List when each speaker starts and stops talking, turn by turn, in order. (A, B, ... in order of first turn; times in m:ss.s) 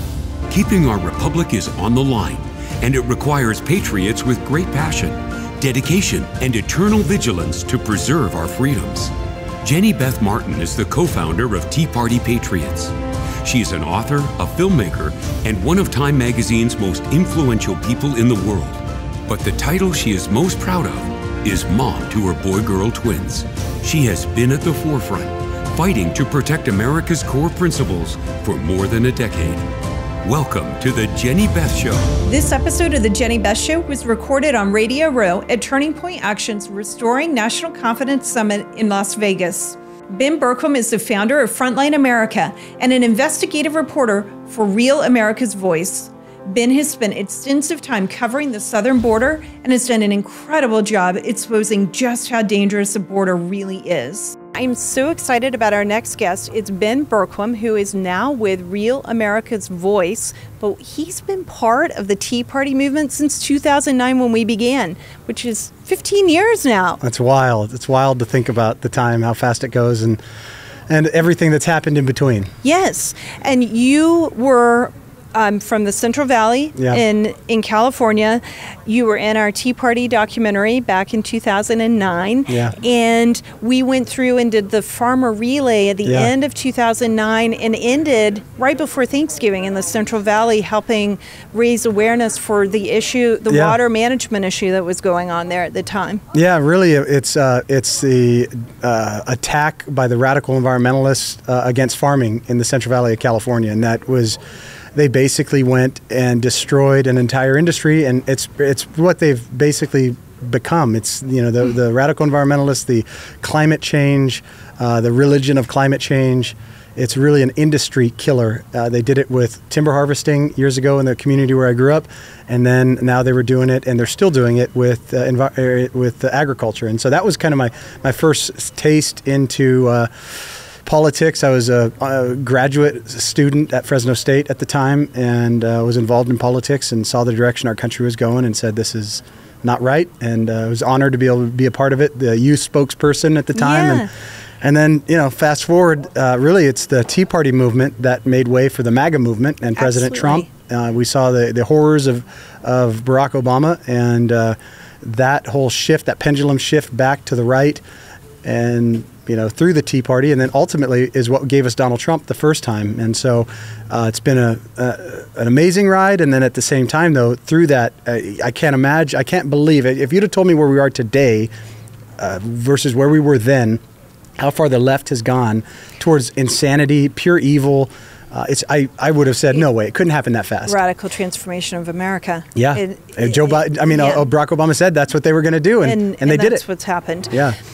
0:00.5-0:29.7 A
0:30.2-0:32.1 A
0:32.2-1:07.0 B
1:07.0-1:10.2 C
1:10.9-1:12.5 C
1:12.6-1:36.2 B
1:16.8-1:17.0 C
1:22.5-1:22.7 C
1:26.0-1:26.3 C
1:33.5-1:33.8 C
1:36.3-1:44.4 C
1:44.9-2:10.1 C
2:10.8-2:24.1 C
2:23.5-2:24.1 B
2:24.6-2:37.8 C
2:29.8-2:30.5 B
2:38.4-2:51.5 C
2:52.2-2:53.8 C
2:54.4-3:00.8 C
3:00.6-3:04.2 B
3:02.5-3:06.6 C
3:05.8-3:07.4 B
3:07.3-3:07.6 C